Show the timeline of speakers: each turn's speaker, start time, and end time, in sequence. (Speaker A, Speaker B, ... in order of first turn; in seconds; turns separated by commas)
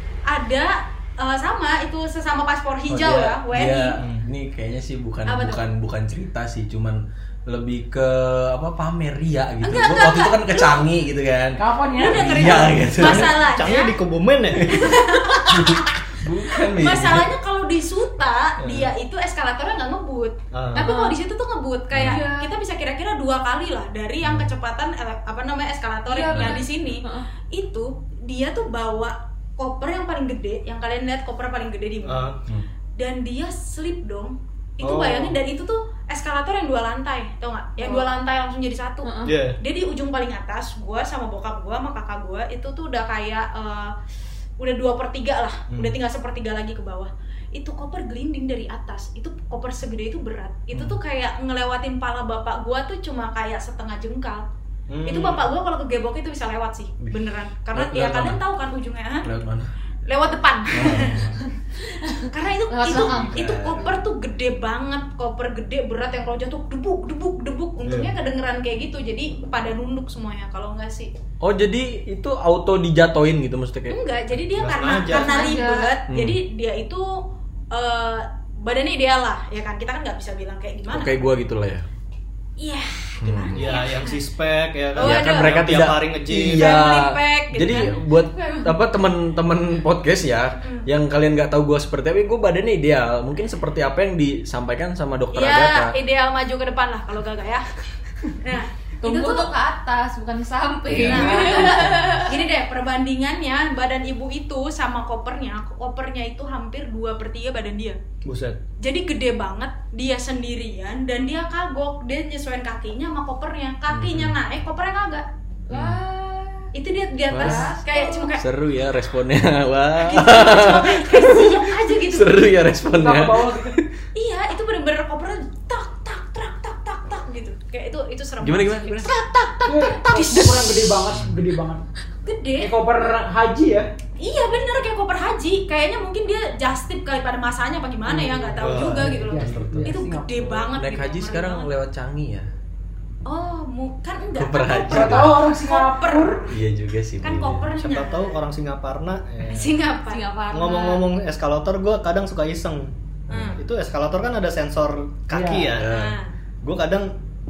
Speaker A: 0.3-4.0, Speaker B: 2.9-13.4, Speaker C: 4.0-4.2, Speaker A: 5.3-5.6, Speaker A: 9.6-10.9, Speaker D: 11.6-13.0, Speaker A: 11.9-14.0, Speaker C: 13.0-14.8, Speaker B: 14.6-17.3, Speaker A: 14.7-15.9, Speaker A: 16.6-32.3, Speaker C: 18.6-18.9, Speaker C: 20.5-20.9, Speaker E: 20.7-21.2, Speaker B: 21.9-22.2, Speaker E: 22.0-22.5, Speaker B: 24.2-24.5, Speaker E: 26.1-27.3, Speaker B: 26.3-26.6, Speaker C: 32.0-32.4, Speaker A: 33.0-43.9, Speaker C: 34.8-35.4, Speaker E: 39.0-39.3, Speaker C: 39.2-39.6, Speaker A: 44.6-54.4, Speaker C: 45.7-46.0, Speaker C: 54.9-55.5, Speaker A: 55.0-59.3, Speaker B: 57.7-58.4, Speaker B: 59.2-59.7, Speaker A: 60.1-61.3, Speaker B: 60.7-61.4, Speaker E: 62.0-63.3, Speaker A: 62.2-71.1, Speaker B: 62.9-64.0, Speaker C: 63.4-63.8, Speaker C: 67.8-68.2, Speaker B: 71.4-74.0, Speaker A: 73.9-77.2, Speaker C: 74.5-75.4, Speaker E: 75.1-75.9, Speaker B: 76.1-76.4, Speaker A: 77.7-81.3, Speaker B: 80.9-81.9, Speaker A: 82.6-84.2, Speaker B: 83.2-83.6, Speaker C: 83.5-86.7, Speaker A: 84.9-85.5, Speaker B: 85.0-95.9, Speaker A: 86.5-87.9, Speaker E: 87.7-88.8, Speaker A: 90.6-90.9, Speaker A: 95.3-97.7, Speaker A: 98.4-99.5, Speaker E: 99.0-102.4, Speaker A: 100.9-108.0, Speaker B: 100.9-101.8, Speaker C: 108.2-108.6, Speaker A: 108.8-115.2, Speaker B: 113.9-114.4, Speaker E: 115.7-116.7, Speaker B: 115.7-116.0, Speaker A: 116.7-118.4, Speaker B: 117.3-117.7, Speaker E: 117.4-118.3, Speaker B: 118.3-123.9, Speaker A: 120.0-122.5, Speaker D: 122.8-123.8, Speaker A: 124.1-129.1, Speaker B: 128.4-129.1, Speaker E: 129.0-131.0, Speaker D: 129.6-131.8, Speaker A: 130.1-130.6, Speaker A: 132.2-132.7, Speaker D: 132.6-133.9, Speaker A: 134.2-141.7, Speaker D: 138.1-140.7, Speaker C: 138.6-140.0, Speaker B: 140.7-142.5, Speaker A: 143.2-146.4, Speaker B: 144.4-145.4, Speaker D: 144.9-146.5, Speaker B: 146.5-147.7, Speaker A: 147.2-148.4, Speaker C: 147.7-149.8, Speaker A: 149.4-150.3, Speaker E: 150.1-151.0, Speaker C: 150.5-152.9, Speaker B: 153.3-153.6, Speaker A: 153.3-153.6, Speaker C: 153.5-155.9, Speaker D: 155.3-155.7, Speaker B: 155.7-156.2, Speaker A: 155.8-156.3, Speaker C: 156.6-157.1